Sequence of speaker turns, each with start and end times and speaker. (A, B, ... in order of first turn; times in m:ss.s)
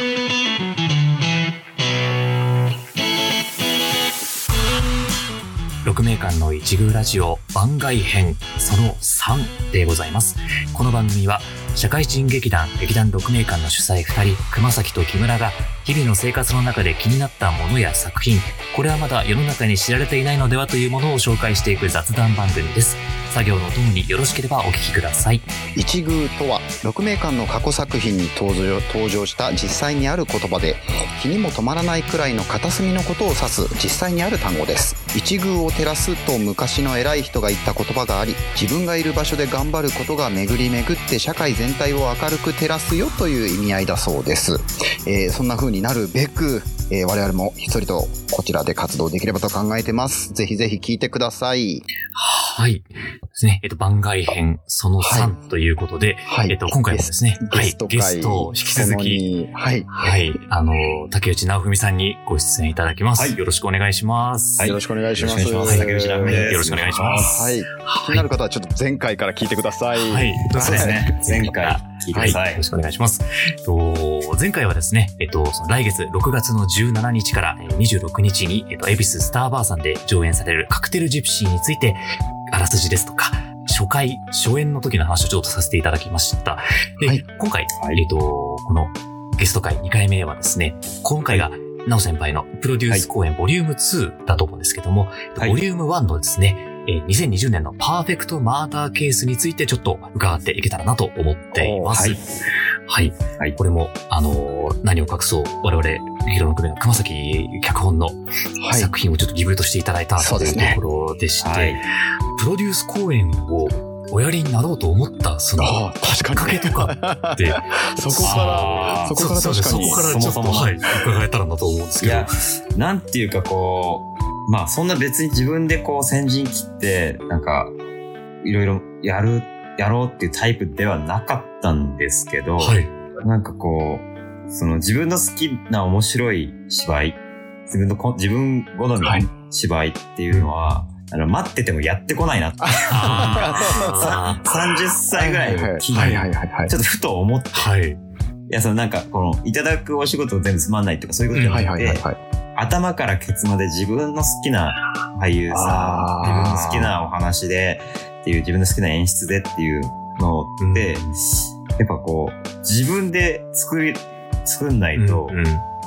0:05.8-0:25.5 A
0:25.8-0:51.8 B
0:52.2-0:59.2 A
0:55.0-0:55.3 B
0:56.3-1:00.1 B
0:59.9-1:04.7 A
1:03.2-1:03.4 C
1:04.6-1:07.5 C
1:04.6-1:11.2 B
1:05.7-1:08.3 A
1:09.9-1:42.2 A
1:10.5-1:12.6 C
1:12.1-1:12.4 B
1:41.6-1:41.9 B
1:41.9-1:42.2 C
1:42.9-1:51.8 A
1:48.6-1:48.9 B
1:50.2-1:50.8 B
1:51.4-1:51.8 C
1:52.4-2:02.3 A
1:55.6-2:00.0 B
1:58.2-2:00.8 C
2:02.0-2:07.7 C
2:08.4-2:27.7 C
2:12.6-2:12.9 A
2:19.0-2:19.3 B
2:20.3-2:20.8 A
2:22.6-2:24.5 B
2:22.9-2:24.4 A
2:25.1-2:26.8 B
2:25.9-2:26.3 A
2:27.5-2:28.0 A
2:28.5-2:32.0 C
2:31.3-2:31.7 A
2:31.5-2:32.2 B
2:32.6-2:41.1 C
2:35.5-2:36.8 B
2:36.2-2:36.8 A
2:40.6-2:41.2 A
2:41.8-2:45.4 C
2:45.0-2:45.6 A